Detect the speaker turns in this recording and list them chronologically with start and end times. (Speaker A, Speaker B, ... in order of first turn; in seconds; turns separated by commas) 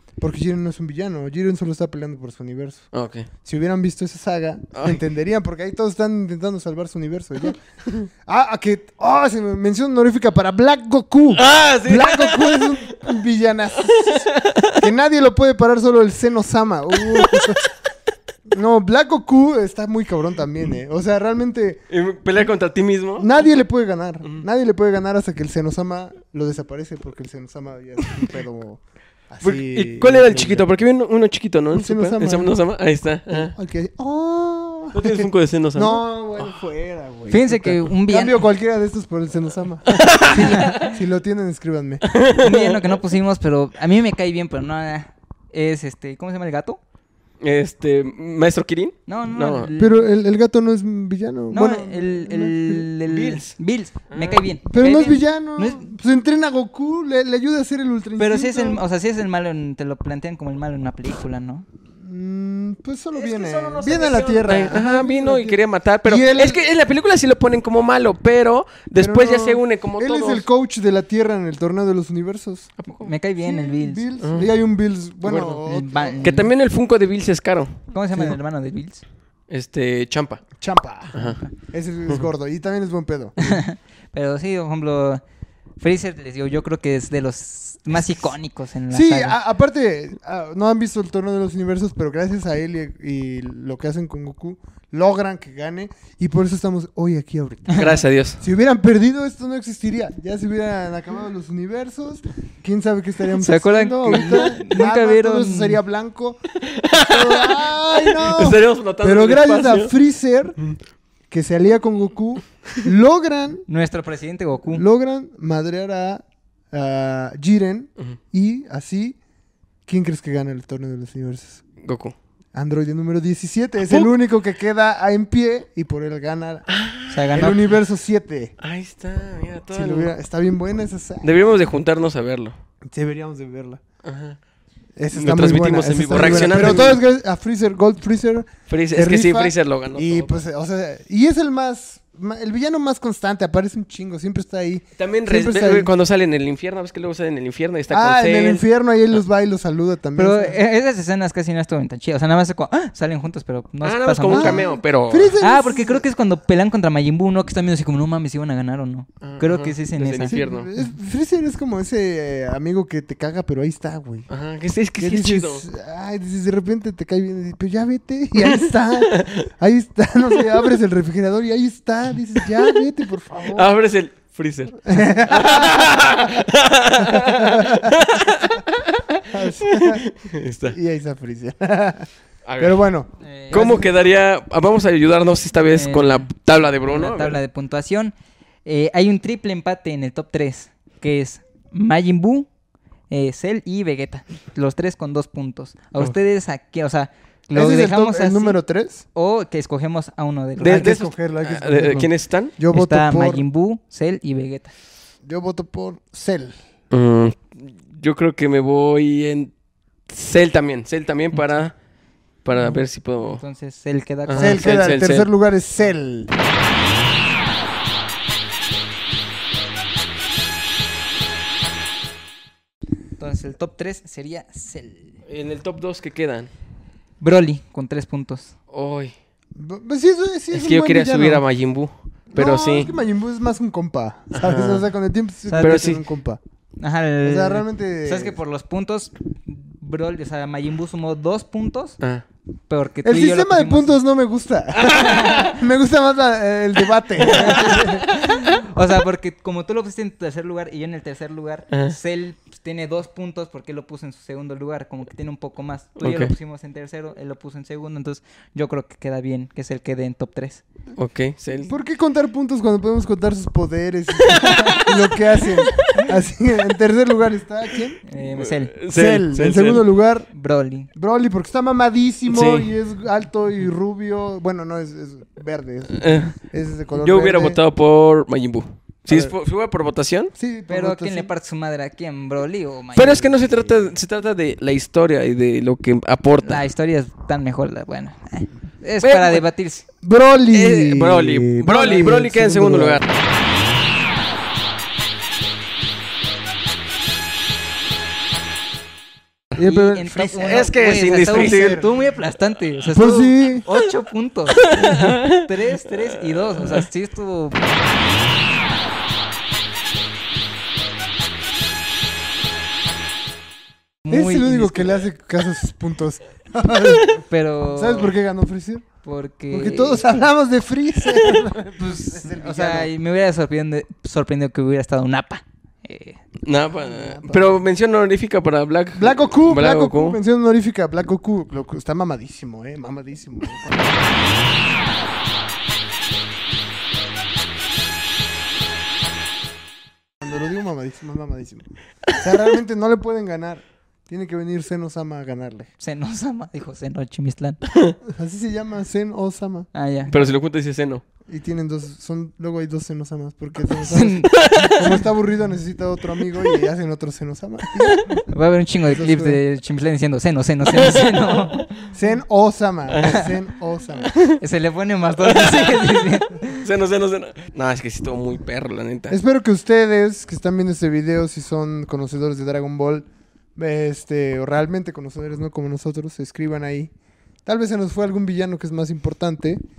Speaker A: 0.2-2.9, Speaker B: 2.9-3.3, Speaker A: 3.4-7.6, Speaker B: 4.7-5.0, Speaker A: 8.2-17.7, Speaker B: 11.3-13.1, Speaker B: 13.9-14.8, Speaker B: 17.1-17.6, Speaker A: 18.5-21.9, Speaker B: 21.9-23.3, Speaker A: 23.2-30.7, Speaker B: 29.4-33.5, Speaker A: 31.7-32.6, Speaker A: 33.3-42.0, Speaker B: 34.9-36.5, Speaker C: 37.3-38.4, Speaker B: 39.9-40.9, Speaker C: 40.4-40.8, Speaker B: 42.0-43.0, Speaker C: 42.4-46.8, Speaker B: 47.4-49.7, Speaker C: 49.1-50.0, Speaker A: 49.8-52.9, Speaker C: 51.5-55.9, Speaker B: 53.1-53.5, Speaker B: 54.1-54.5, Speaker A: 54.7-58.8, Speaker C: 58.2-61.6, Speaker A: 62.0-66.6, Speaker B: 63.1-70.5, Speaker A: 69.0-72.7, Speaker B: 72.8-73.1, Speaker C: 73.0-74.1, Speaker A: 73.4-76.5, Speaker B: 74.2-74.5, Speaker B: 75.2-75.6, Speaker C: 75.7-76.5, Speaker B: 76.2-77.8, Speaker C: 77.9-79.0, Speaker B: 79.5-80.5, Speaker A: 80.6-83.6, Speaker B: 81.1-81.4, Speaker C: 83.4-85.2, Speaker C: 85.8-89.4, Speaker A: 88.9-110.6, Speaker B: 97.7-98.4, Speaker C: 103.4-105.8, Speaker B: 106.6-109.9, Speaker A: 111.3-113.7, Speaker C: 113.7-114.8, Speaker A: 114.7-119.2, Speaker A: 119.9-121.6, Speaker B: 121.8-122.2, Speaker A: 122.5-126.7, Speaker B: 123.8-124.1, Speaker B: 126.7-127.6, Speaker C: 127.1-127.6, Speaker A: 127.3-128.5, Speaker B: 128.6-130.1, Speaker A: 129.7-131.5, Speaker B: 131.2-132.5, Speaker A: 132.9-133.8, Speaker B: 134.0-134.4, Speaker A: 135.0-145.9, Speaker B: 135.1-137.0, Speaker B: 138.7-140.4, Speaker B: 145.0-148.6, Speaker A: 147.9-150.6, Speaker C: 150.2-154.7, Speaker B: 153.8-155.4, Speaker A: 154.3-156.1, Speaker C: 155.4-160.9, Speaker B: 159.2-160.7, Speaker A: 160.3-164.3, Speaker B: 164.3-165.6, Speaker A: 165.0-173.7, Speaker B: 168.4-169.5, Speaker B: 173.5-180.8, Speaker A: 174.8-176.3, Speaker A: 177.0-178.0, Speaker A: 179.3-180.1, Speaker A: 180.7-183.9, Speaker B: 182.4-182.8, Speaker C: 183.2-183.8, Speaker B: 183.5-187.4, Speaker C: 185.7-188.1, Speaker C: 188.7-192.5, Speaker C: 193.1-198.6, Speaker A: 197.5-199.1, Speaker C: 199.2-201.0, Speaker B: 200.6-202.5, Speaker A: 200.6-203.4, Speaker C: 202.7-204.7, Speaker A: 205.2-206.6, Speaker B: 206.9-209.5, Speaker B: 210.1-211.7, Speaker B: 212.4-213.4, Speaker C: 212.6-214.8, Speaker B: 214.3-215.3, Speaker A: 214.4-216.3, Speaker C: 223.2-225.2, Speaker B: 225.3-226.5, Speaker C: 227.2-228.5, Speaker B: 228.7-229.1, Speaker A: 229.6-231.4, Speaker B: 230.5-232.9, Speaker A: 232.3-236.4, Speaker B: 234.3-234.9, Speaker C: 235.5-235.9, Speaker B: 235.6-236.0, Speaker C: 236.8-242.0, Speaker A: 237.2-238.4, Speaker C: 242.7-244.0, Speaker A: 243.0-248.0, Speaker B: 244.8-245.6, Speaker B: 247.3-248.0, Speaker C: 247.3-260.6, Speaker B: 256.0-256.3, Speaker B: 261.0-261.8, Speaker A: 261.7-268.0, Speaker B: 264.2-265.9, Speaker C: 268.1-268.7, Speaker B: 268.4-269.9, Speaker A: 268.9-270.3, Speaker C: 270.3-270.9, Speaker A: 270.9-277.6, Speaker B: 272.3-272.7, Speaker B: 276.0-276.4, Speaker B: 276.9-280.3, Speaker A: 279.1-279.3, Speaker A: 280.4-281.3, Speaker C: 280.7-283.4, Speaker B: 282.9-286.6, Speaker C: 286.4-289.9, Speaker B: 289.0-289.4, Speaker A: 290.0-293.0, Speaker B: 290.5-293.1, Speaker A: 299.5-300.6, Speaker C: 299.6-307.6, Speaker B: 300.4-301.9, Speaker A: 301.2-301.9, Speaker A: 302.9-303.7, Speaker B: 304.7-305.5, Speaker C: 314.1-314.9, Speaker A: 314.1-318.9, Speaker C: 317.3-318.1, Speaker C: 319.0-320.1, Speaker A: 319.5-322.9, Speaker C: 321.8-326.2, Speaker B: 326.4-330.2, Speaker A: 326.9-327.5, Speaker A: 328.9-334.0, Speaker A: 340.2-345.7, Speaker C: 345.8-347.6, Speaker A: 348.1-349.7, Speaker C: 349.7-350.1, Speaker B: 350.1-351.0, Speaker A: 351.3-358.2, Speaker C: 353.8-354.8, Speaker B: 354.3-354.7, Speaker C: 358.3-361.7, Speaker A: 358.9-359.4, Speaker A: 361.9-364.1, Speaker B: 362.9-363.2, Speaker B: 364.0-364.4, Speaker C: 364.4-366.6, Speaker B: 365.2-365.9, Speaker B: 366.6-369.2, Speaker A: 369.1-376.9, Speaker A: 377.5-379.6